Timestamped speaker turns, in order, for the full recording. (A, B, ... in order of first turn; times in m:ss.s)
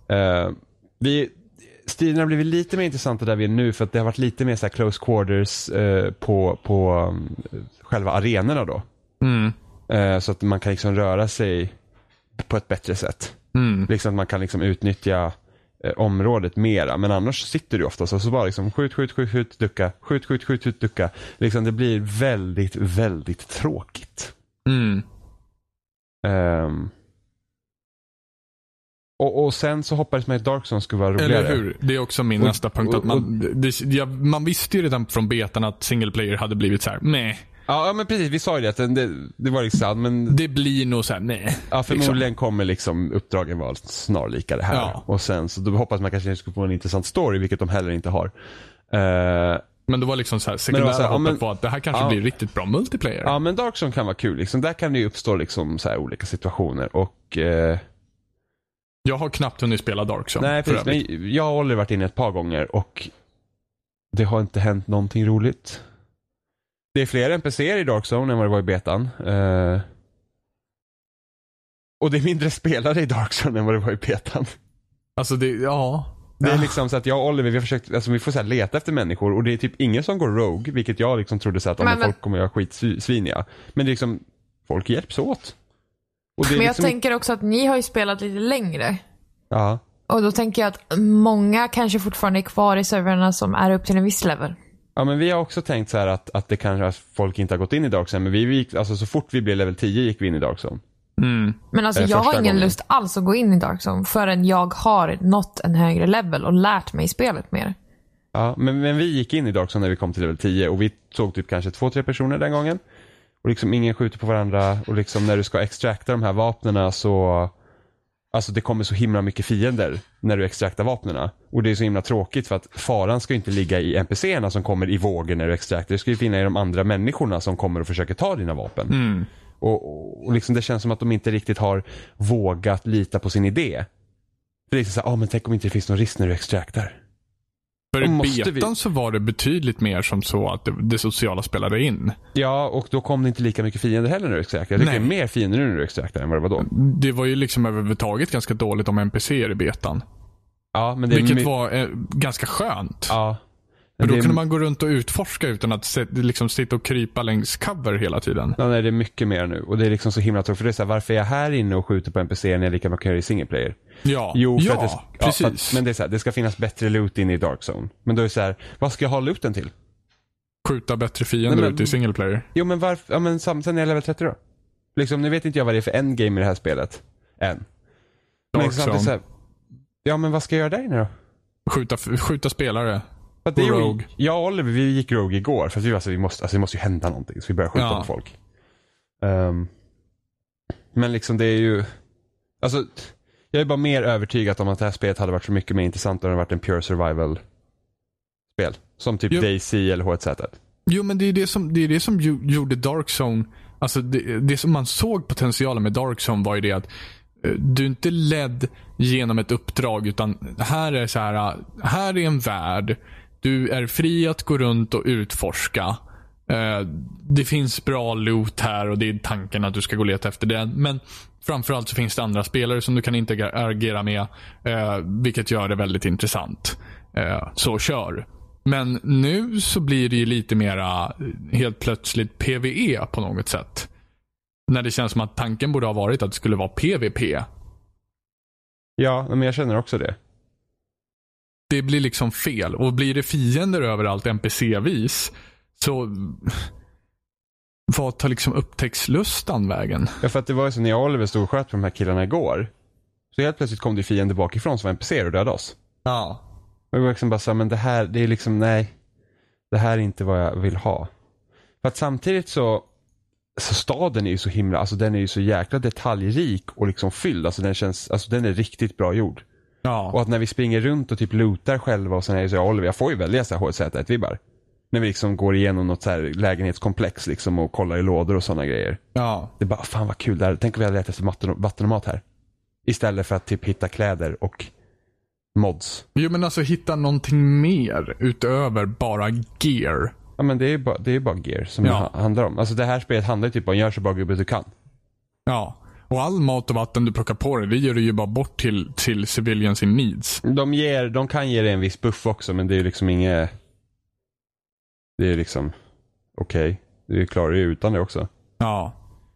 0:00.1-0:08.8 A
0:09.2-0:09.5 B
0:09.9-0:11.7 A
0:12.4-0:13.4 A
0:13.5-0:13.9 B
0:13.9-0:24.3 A
0:24.6-0:25.0 B
0:26.2-0:26.9 A
0:29.2-0:31.6 A
0:31.2-0:37.4 B
0:32.4-0:33.3 A
0:37.7-0:40.4 A
0:40.3-0:42.2 B
0:41.7-0:48.3 A
0:44.7-0:45.0 B
0:48.9-0:49.6 A
0:49.9-0:53.3 B
0:50.7-0:52.2 A
0:53.2-0:57.8 A
0:59.0-1:01.0 B
1:00.4-1:03.1 A
1:04.1-1:05.8 A
1:06.9-1:09.8 A
1:12.0-1:14.6 A
1:15.2-1:16.7 B
1:16.4-1:25.5 A
1:21.8-1:22.1 C
1:26.4-1:26.9 A
1:26.4-1:29.0 C
1:29.5-1:29.8 A
1:30.1-1:34.6 C
1:35.0-1:40.8 A
1:41.2-1:41.6 B
1:41.7-1:47.7 C
1:41.9-1:42.7 A
1:48.3-1:52.8 A
1:53.4-1:57.5 A
1:58.3-2:08.9 A
2:08.9-2:09.3 B
2:09.6-2:13.9 A
2:14.7-2:17.0 A
2:17.9-2:22.2 B
2:18.0-2:18.7 A
2:22.3-2:26.7 A
2:24.8-2:25.1 B
2:26.6-2:30.0 B
2:30.7-2:31.5 A
2:31.1-2:33.2 B
2:33.1-2:33.4 A
2:34.0-2:34.4 A
2:34.0-2:38.6 B
2:38.6-2:43.8 A
2:44.0-2:45.8 B
2:44.3-2:49.7 A
2:50.6-2:52.5 B
2:51.5-2:51.9 A
2:52.5-2:54.4 A
2:54.9-2:57.6 A
2:58.5-2:59.1 B
2:58.5-2:59.2 A
3:00.0-3:01.1 A
3:01.7-3:04.0 B
3:03.4-3:08.3 A
3:07.7-3:08.1 B
3:09.2-3:09.7 A
3:10.9-3:11.9 A
3:12.6-3:17.4 A
3:18.5-3:20.6 A
3:20.9-3:26.9 B
3:27.4-3:53.9 B
3:54.7-3:57.4 B
3:59.0-4:00.2 A
4:01.7-4:06.7 B
4:07.9-4:10.2 B
4:10.2-4:12.7 A
4:13.3-4:15.8 A
4:16.0-4:16.4 B
4:16.9-4:18.9 A
4:19.7-4:21.1 A
4:21.8-4:22.9 A
4:23.6-4:29.4 A
4:29.8-4:30.2 B
4:30.1-4:34.4 A
4:34.9-4:39.0 A
4:39.1-4:39.5 B
4:39.6-4:42.2 A
4:42.8-4:44.7 A
4:45.5-4:46.0 A
4:46.1-4:50.1 B
4:50.4-4:54.7 A
4:51.8-4:52.1 B
4:55.5-5:00.4 B
5:00.4-5:03.5 A
5:05.2-5:05.7 A
5:06.3-5:08.3 A
5:08.6-5:08.9 B